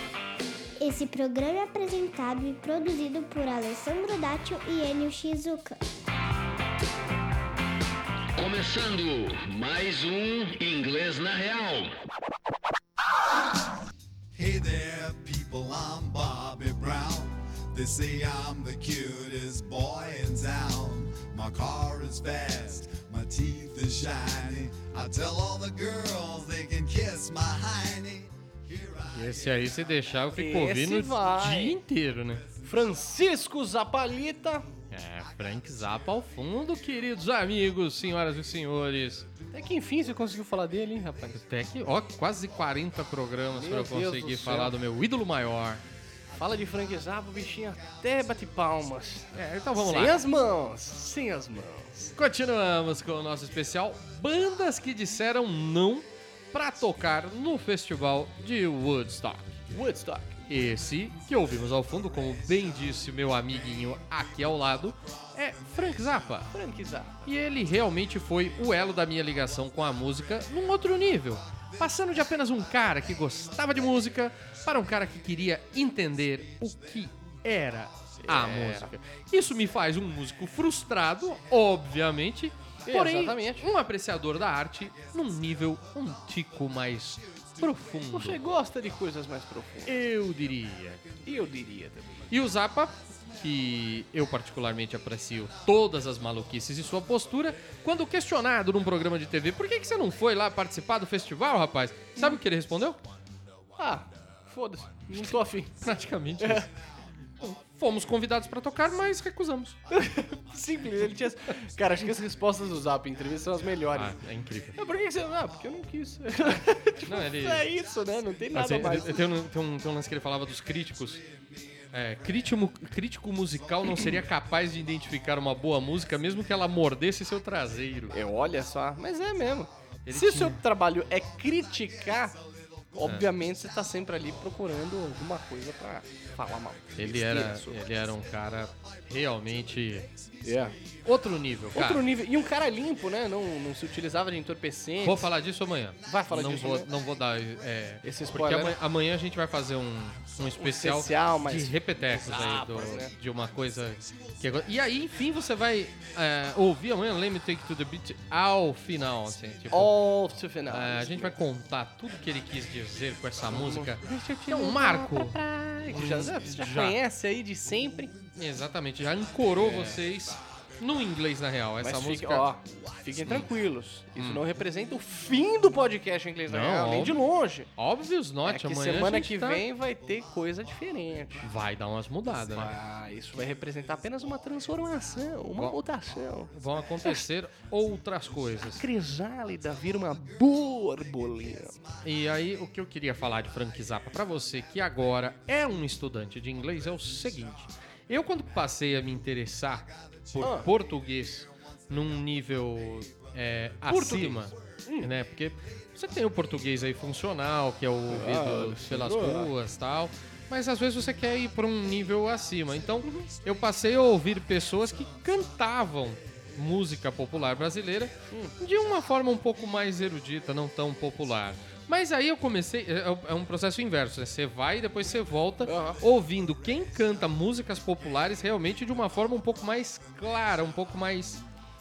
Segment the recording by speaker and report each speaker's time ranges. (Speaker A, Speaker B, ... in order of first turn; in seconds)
Speaker A: 0.8-5.8
Speaker B: 8.3-11.9
Speaker C: 14.3-29.4
Speaker D: 29.1-32.4, 34.9-39.3, 41.4-45.8, 49.3-50.2, 52.2-59.5, 60.5-66.5, 67.2-88.4, 89.8-91.0, 92.3-103.0, 105.8-106.7, 107.4-109.8, 113.9-114.8, 117.0-117.7, 118.5-121.2, 121.9-128.1, 130.1-130.6, 137.0-140.1, 141.0-142.0, 145.0-159.9, 160.7-167.0, 168.3-172.5, 174.2-174.4, 176.5-177.2, 177.8-179.6, 181.4-182.7, 186.5-188.8, 192.0-231.4
Speaker E: 30.4-31.8, 32.6-34.7, 39.5-41.4, 43.5-44.7, 46.3-52.1, 59.7-60.4, 66.5-67.2, 78.2-78.9, 82.8-83.7, 88.1-89.9, 91.2-92.3, 103.8-105.8, 106.4-106.7, 109.9-114.2, 114.7-119.2, 123.8-124.2, 128.1-132.4, 132.9-137.8, 140.4-140.8, 141.7-145.3, 146.0-146.9, 148.0-148.8, 150.5-153.1, 159.7-161.3, 163.5-168.1, 169.6-170.0, 171.8-177.7, 178.4-181.5, 182.5-186.5, 188.6-191.8, 200.4-200.7, 203.9-205.1, 208.1-209.5, 213.0-213.3, 218.3-218.6, 225.6-226.0